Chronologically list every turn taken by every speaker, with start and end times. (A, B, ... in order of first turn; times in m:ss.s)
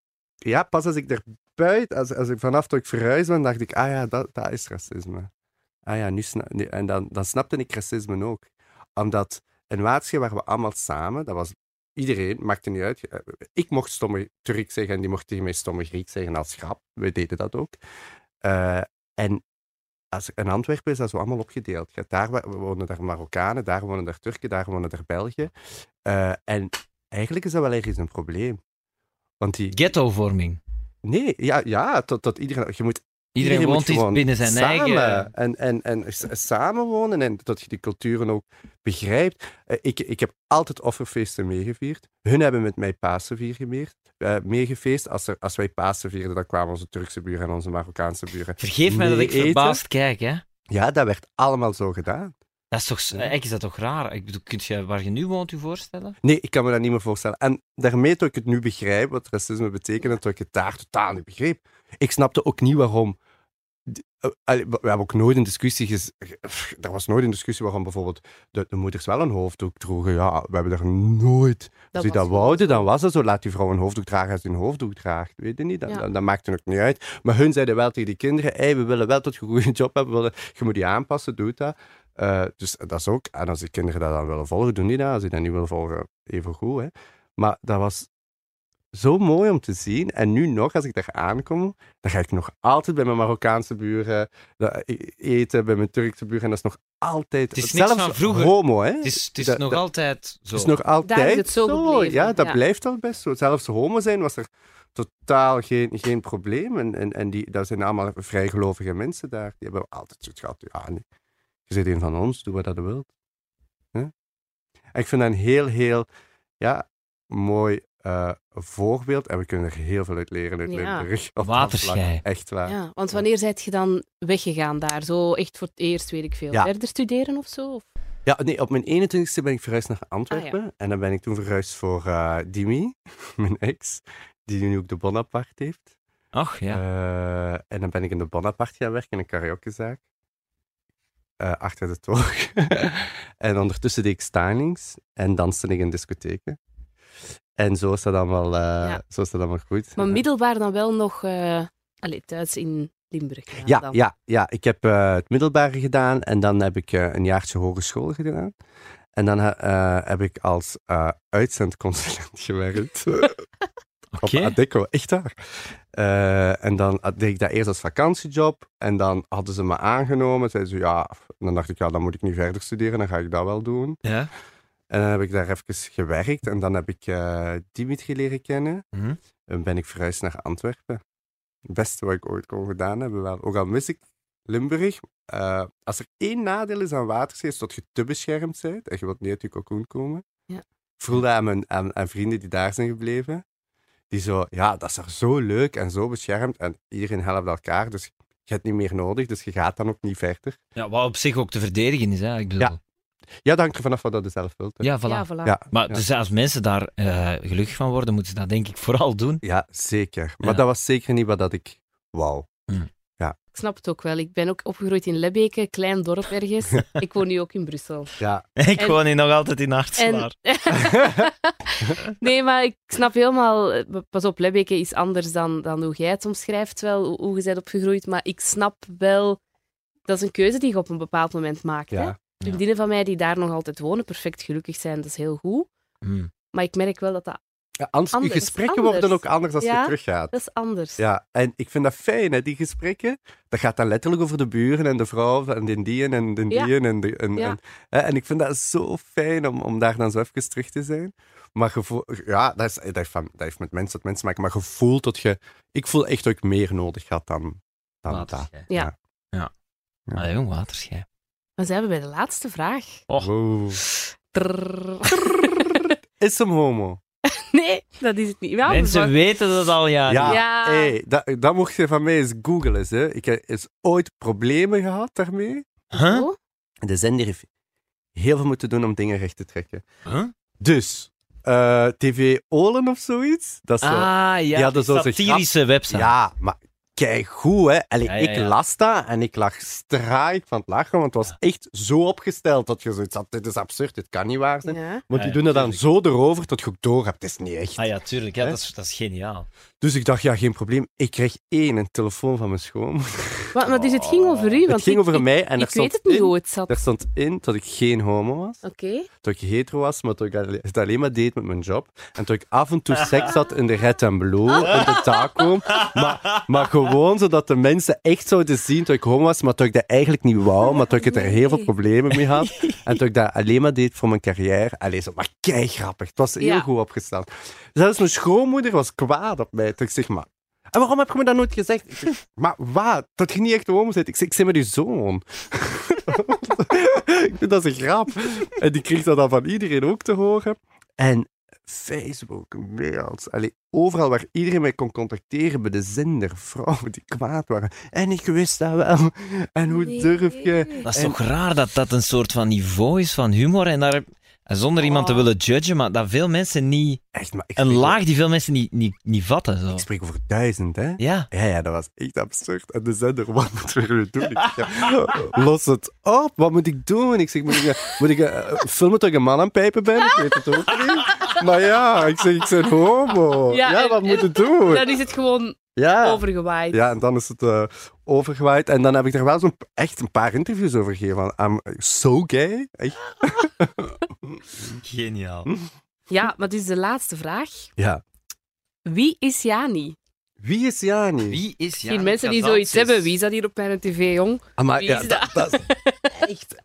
0:00.4-0:05.3 A
0:05.8-0:17.8 A
0:18.4-0:19.4 A
0:20.1-0:25.5 A
0:26.0-0:28.6 A
0:29.4-0:29.8 A
0:29.7-0:30.6 B
0:31.0-0:49.8 A
0:33.3-0:35.3 B
0:48.6-0:50.4 B
0:50.7-0:52.3 A
0:52.7-0:56.2 B
0:56.2-1:03.2 A
1:03.8-1:28.1 A
1:11.9-1:12.9 C
1:28.9-1:39.8 A
1:37.5-1:40.7 B
1:40.5-1:51.0 A
1:41.0-1:42.6 C
1:51.7-1:53.1 A
1:54.9-1:56.1 A
1:56.6-2:03.2 A
2:00.7-2:01.1 C
2:01.4-2:02.2 B
2:02.6-2:07.9 C
2:08.2-2:15.9 A
2:16.3-2:16.8 B
2:16.7-2:20.0 A
2:21.4-2:26.6 A
2:27.6-2:30.2 A
2:30.0-2:34.0 C
2:33.6-2:38.5 A
2:39.2-2:43.4 A
2:44.1-2:44.6 B
2:44.2-2:45.3 A
2:45.9-2:54.0 A
2:54.0-2:54.3 B
2:54.9-2:58.8 A
2:59.5-3:01.0 A
3:01.7-3:10.2 A
3:11.0-3:13.4 A
3:14.1-3:20.6 A
3:20.8-3:22.8 B
3:23.4-3:24.9 A
3:24.8-3:29.4 B
3:25.0-3:25.5 C
3:25.4-3:26.0 A
3:29.4-3:32.5 A
3:33.5-3:38.1 C
3:38.2-3:38.4 A
3:38.6-3:40.3 B
3:40.0-3:49.4 C
3:50.1-3:55.7 C
3:51.9-3:52.2 A
3:56.0-3:56.3 B
3:56.5-3:57.4 C
3:57.8-4:00.3 A
3:58.1-4:01.0 C
4:01.0-4:18.9 A
4:18.1-4:18.7 B
4:20.1-4:21.0 B
4:21.6-4:23.0 C
4:23.2-4:23.8 A
4:24.3-4:25.9 C
4:25.6-4:27.0 A
4:27.3-4:29.1 C
4:28.6-4:30.4 B
4:30.1-4:35.7 A
4:30.2-4:30.9 C
4:35.9-4:36.3 B
4:36.0-4:36.4 C
4:36.8-4:37.5 A
4:38.1-4:39.8 A
4:40.0-4:40.3 B
4:40.6-4:57.8 A
4:43.8-4:46.1 B
4:48.0-4:48.5 B
4:54.6-4:55.0 C
4:55.1-4:55.8 B
4:57.8-4:59.5 B
4:59.8-5:03.5 A
5:03.5-5:06.8 C
5:03.7-5:04.6 B
5:04.7-5:08.6 A
5:08.6-5:09.1 C
5:09.2-5:51.2 A
5:15.7-5:16.4 B
5:20.7-5:21.7 C
5:26.4-5:26.7 C
5:49.7-5:50.8 C
5:50.8-5:57.0 B
5:54.8-5:55.3 C
5:57.1-5:58.0 A
5:57.6-5:59.8 B
5:59.8-6:14.9 A
6:01.0-6:01.3 B
6:11.0-6:11.3 B
6:13.5-6:16.9 C
6:15.8-6:24.4 A
6:24.7-6:25.5 B
6:26.1-6:27.7 C
6:27.8-6:28.0 A
6:28.8-6:30.0 C
6:30.4-6:31.4 A
6:31.2-6:33.1 B
6:31.9-6:36.5 C
6:34.6-6:35.6 A